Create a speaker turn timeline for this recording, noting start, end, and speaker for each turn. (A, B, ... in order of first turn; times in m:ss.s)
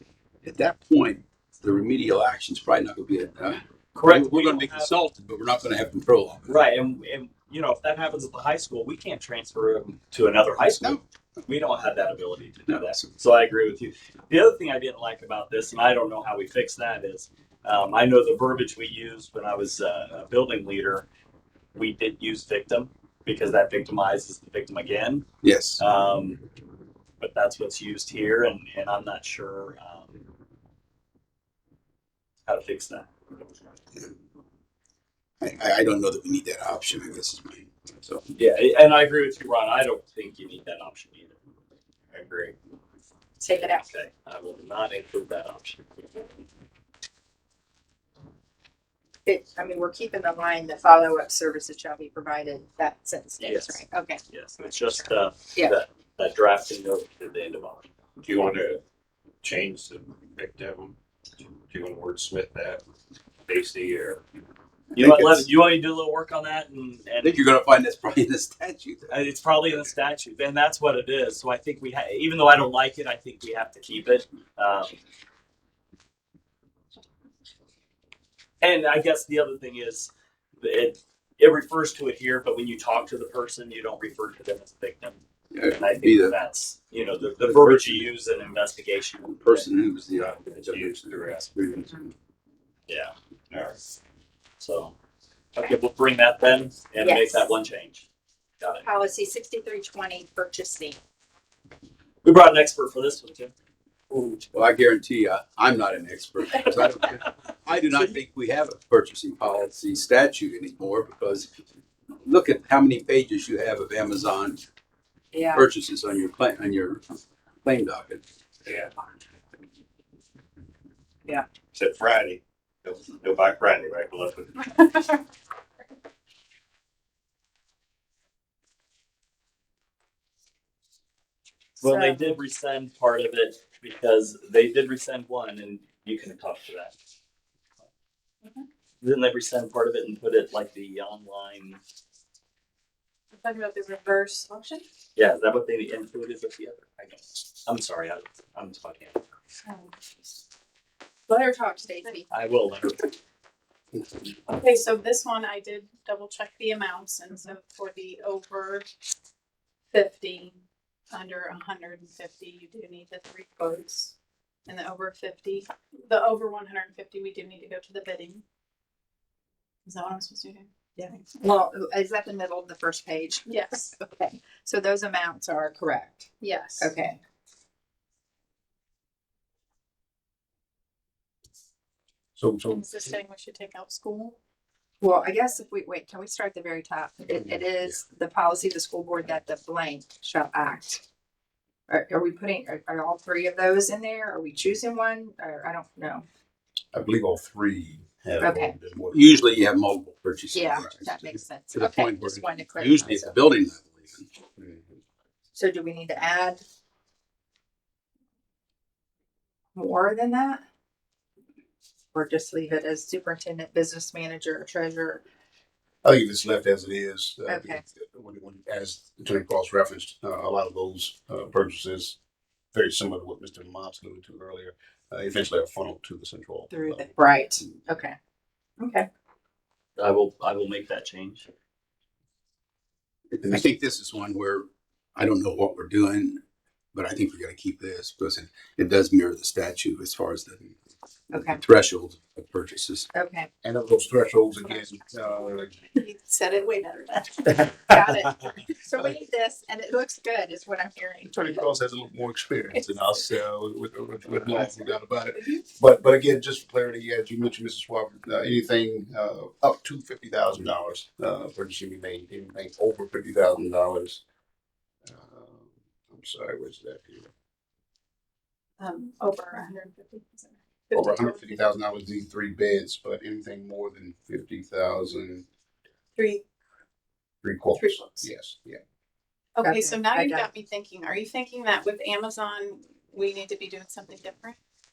0:00.4-0:06.6 A
0:03.9-0:04.9 B
0:06.5-0:21.1 B
0:12.6-0:13.1 A
0:21.7-0:25.3 B
0:25.4-0:25.8 A
0:25.8-0:26.4 B
0:27.2-0:30.2 B
0:32.5-0:33.1 B
0:35.4-0:38.2 A
0:38.3-0:41.4 B
0:42.1-0:42.6 C
0:43.4-0:43.9 D
0:43.6-0:45.8 B
0:49.2-0:54.2 D
0:53.4-0:57.8 B
0:58.2-0:58.8 C
0:59.4-1:01.0 C
1:01.6-1:02.8 C
1:03.4-1:04.2 C
1:04.9-1:07.4 B
1:05.0-1:05.4 A
1:07.2-1:09.1 A
1:09.1-1:15.0 B
1:18.6-1:20.1 B
1:20.6-1:29.7 B
1:25.5-1:26.4 A
1:27.4-1:28.1 A
1:29.4-1:32.1 A
1:30.4-1:31.7 C
1:32.9-1:33.8 B
1:34.6-1:34.9 B
1:35.6-1:38.0 B
1:37.0-1:37.4 D
1:38.8-1:41.0 D
1:42.2-1:43.5 B
1:44.1-1:44.4 B
1:44.5-1:51.5 A
1:52.2-1:54.6 A
1:55.3-1:55.6 D
1:55.5-1:57.0 A
1:57.6-1:58.2 A
1:58.6-1:58.9 C
2:01.7-2:05.0 C
2:11.8-2:16.9 B
2:11.8-2:12.4 D
2:19.0-2:21.8 B
2:23.3-2:24.8 E
2:25.2-2:29.2 B
2:29.6-2:29.9 E
2:31.3-2:32.3 D
2:32.3-2:33.1 B
2:34.5-2:38.9 E
2:39.9-2:44.1 E
2:44.7-2:48.4 E
2:49.8-2:50.7 E
2:51.0-2:57.2 D
2:53.5-2:53.9 E
2:56.4-2:56.9 E
3:02.4-3:02.8 F
3:02.7-3:04.4 E
3:05.0-3:11.0 D
3:11.9-3:16.2 D
3:16.9-3:19.3 F
3:18.4-3:18.7 D
3:19.1-3:24.3 A
3:20.5-3:23.3 D
3:24.6-3:25.0 F
3:25.5-3:26.6 D
3:29.7-3:30.6 D
3:32.1-3:35.2 D
3:36.0-3:42.2 F
3:37.5-3:37.8 D
3:42.7-3:47.1 F
3:46.7-3:48.2 D
3:48.8-3:49.1 D
3:50.0-3:51.5 B
3:53.3-3:56.4 A
3:56.9-4:00.8 A
4:01.3-4:01.6 D
4:01.5-4:03.1 A
4:03.1-4:03.5 D
4:03.6-4:05.8 F
4:05.4-4:07.7 E
4:07.6-4:11.6 D
4:11.3-4:24.2 F
4:25.0-4:27.3 F
4:28.8-4:31.6 E
4:30.9-4:35.4 F
4:36.2-4:36.4 E
4:37.4-4:38.8 F
4:37.7-4:38.2 E
4:39.6-4:44.6 E
4:39.6-4:40.5 D